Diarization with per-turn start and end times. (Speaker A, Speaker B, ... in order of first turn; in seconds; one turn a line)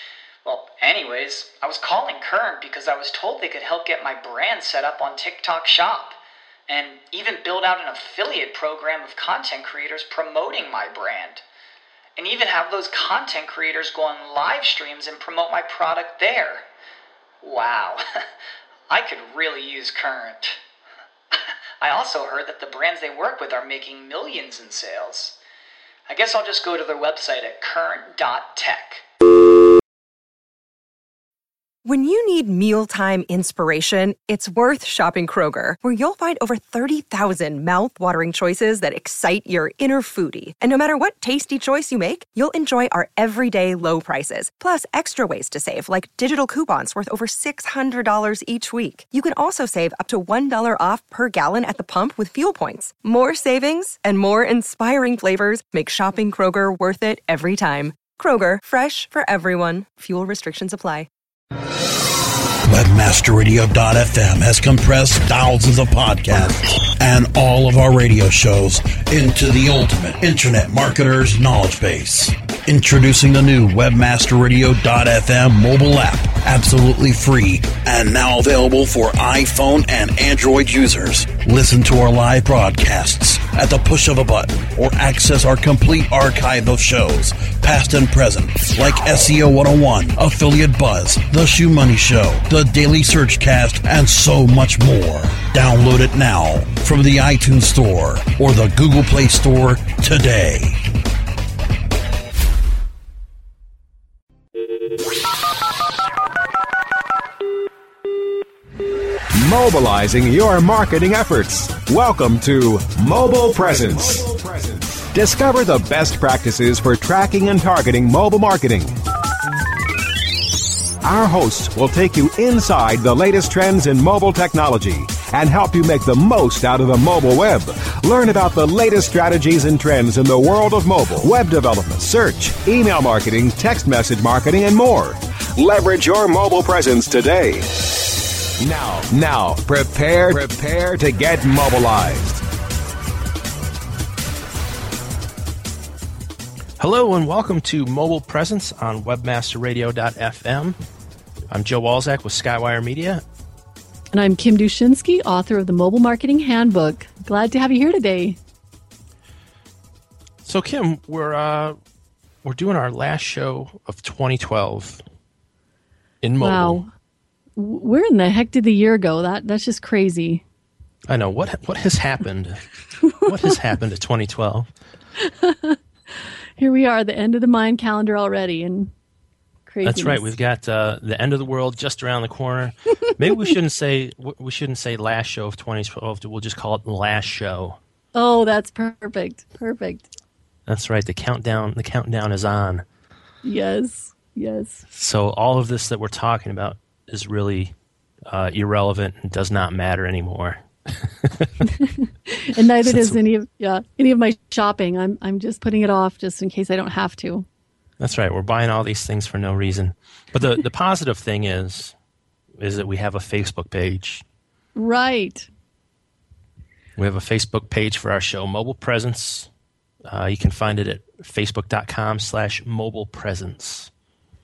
Speaker A: 0.4-11.4
Speaker A: 12.2-16.6
Speaker A: 17.4-18.0
Speaker A: 18.9-20.6
Speaker A: 21.8-25.4
Speaker A: 26.1-29.0
Speaker B: 31.8-61.1
Speaker C: 62.6-100.8
Speaker D: 109.3-118.9
Speaker D: 121.0-137.7
Speaker D: 138.6-142.4
Speaker E: 146.8-150.8
Speaker E: 151.5-153.2
Speaker F: 154.1-158.4
Speaker E: 160.4-161.8
Speaker E: 162.4-165.0
Speaker E: 166.2-166.8
Speaker F: 166.4-166.9
Speaker F: 167.6-170.4
Speaker E: 171.1-172.6
Speaker F: 173.0-173.3
Speaker E: 173.2-174.7
Speaker F: 175.2-175.8
Speaker F: 176.6-178.9
Speaker F: 179.7-180.3
Speaker E: 179.8-187.8
Speaker F: 188.1-190.1
Speaker E: 190.7-192.8
Speaker F: 193.4-194.8
Speaker E: 194.9-197.7
Speaker E: 198.3-201.5
Speaker F: 201.6-207.4
Speaker E: 202.8-203.2
Speaker E: 208.0-211.9
Speaker E: 212.6-214.2
Speaker F: 214.8-215.5
Speaker E: 217.0-219.5
Speaker E: 220.1-223.9